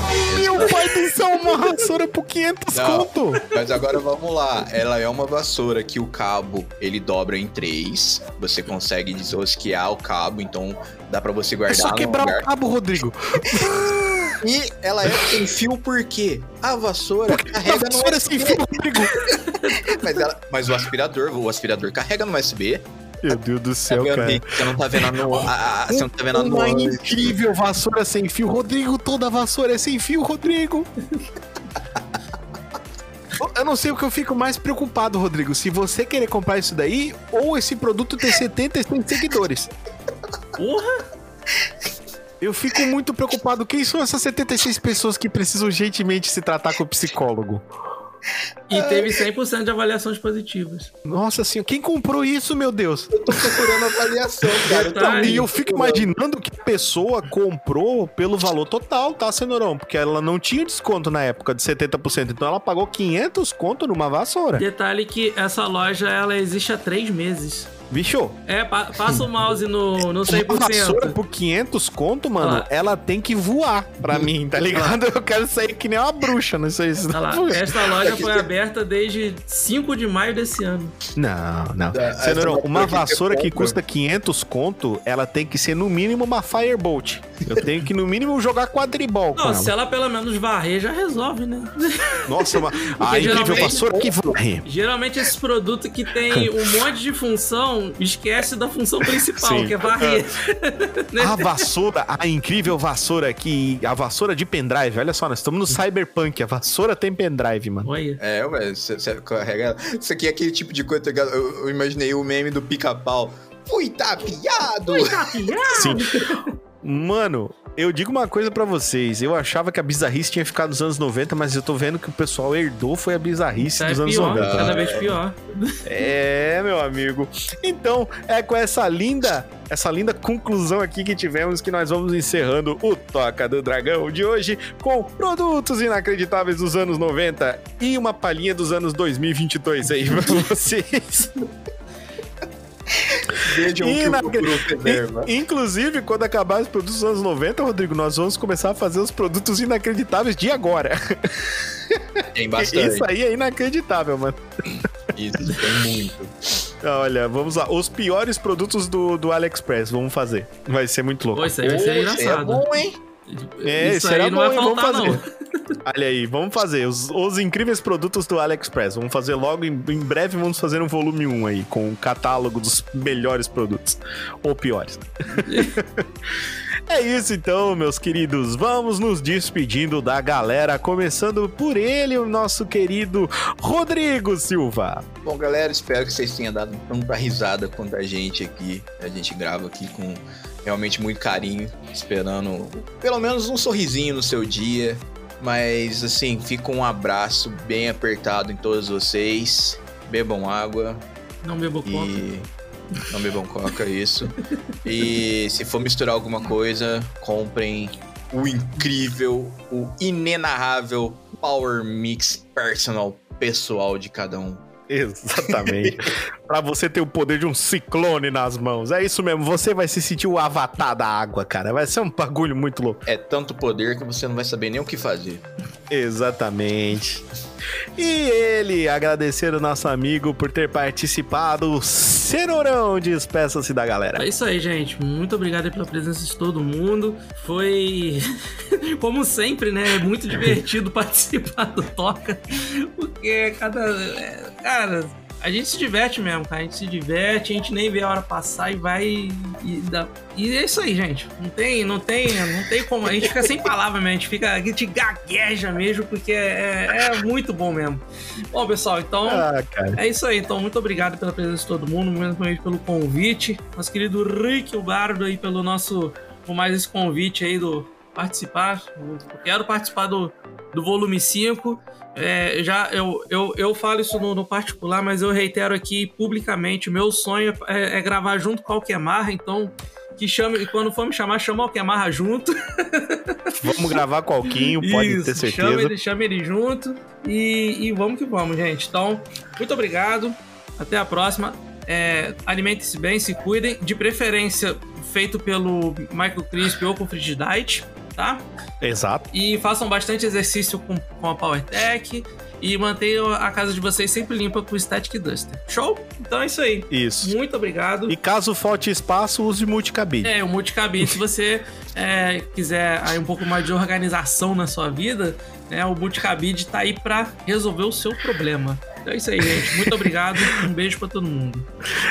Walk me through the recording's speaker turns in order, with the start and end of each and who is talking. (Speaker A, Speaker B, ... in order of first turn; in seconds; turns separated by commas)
Speaker A: 0.2-3.5, Speaker B: 0.3-1.1, Speaker B: 2.7-12.5, Speaker A: 11.7-14.3, Speaker B: 13.5-13.9, Speaker B: 14.4-18.7, Speaker A: 17.3-19.3, Speaker B: 19.7-22.8, Speaker A: 23.2-24.4, Speaker B: 23.9-27.0, Speaker A: 25.9-30.9, Speaker A: 33.4-39.7, Speaker C: 40.6-41.1, Speaker A: 42.4-47.6, Speaker C: 48.7-50.9, Speaker B: 48.7-49.1, Speaker A: 51.1-64.6, Speaker B: 53.1-56.1, Speaker C: 54.8-55.5, Speaker C: 64.6-67.7, Speaker A: 67.9-68.4, Speaker C: 68.5-71.2, Speaker A: 70.3-77.7, Speaker C: 72.4-72.7, Speaker C: 77.1-80.9, Speaker B: 78.0-78.5, Speaker A: 81.2-89.7, Speaker B: 81.9-83.8, Speaker C: 89.4-93.9, Speaker A: 92.3-94.6, Speaker B: 93.2-94.1, Speaker C: 94.7-101.5, Speaker A: 99.4-100.2, Speaker A: 101.2-107.9, Speaker C: 107.8-108.2, Speaker B: 108.2-115.4, Speaker C: 114.9-116.5, Speaker A: 115.7-116.0, Speaker A: 116.8-124.8, Speaker C: 123.7-125.7, Speaker B: 124.3-125.1, Speaker A: 125.8-141.3, Speaker B: 142.9-145.3, Speaker A: 143.8-151.2, Speaker B: 152.3-153.1, Speaker A: 152.6-154.4, Speaker B: 155.2-156.3, Speaker A: 156.8-161.6, Speaker C: 161.3-162.7, Speaker B: 161.6-163.0, Speaker C: 163.3-165.2, Speaker A: 163.6-165.2, Speaker A: 165.8-176.0, Speaker C: 175.5-175.7, Speaker A: 176.9-185.1, Speaker B: 185.2-201.0, Speaker C: 201.4-202.2, Speaker B: 201.9-202.5, Speaker B: 203.1-204.3, Speaker B: 204.8-214.6, Speaker A: 214.9-223.0, Speaker B: 215.5-215.9, Speaker B: 223.1-225.4, Speaker A: 225.9-227.2, Speaker A: 228.0-234.2, Speaker C: 234.2-238.3, Speaker C: 238.8-258.0, Speaker C: 258.5-259.5, Speaker A: 259.3-260.0, Speaker C: 260.0-283.4, Speaker A: 283.6-285.9, Speaker C: 284.8-298.4, Speaker A: 298.8-299.2, Speaker C: 299.3-308.1, Speaker A: 306.9-307.3, Speaker A: 308.1-310.3, Speaker C: 310.2-321.6, Speaker A: 319.7-319.9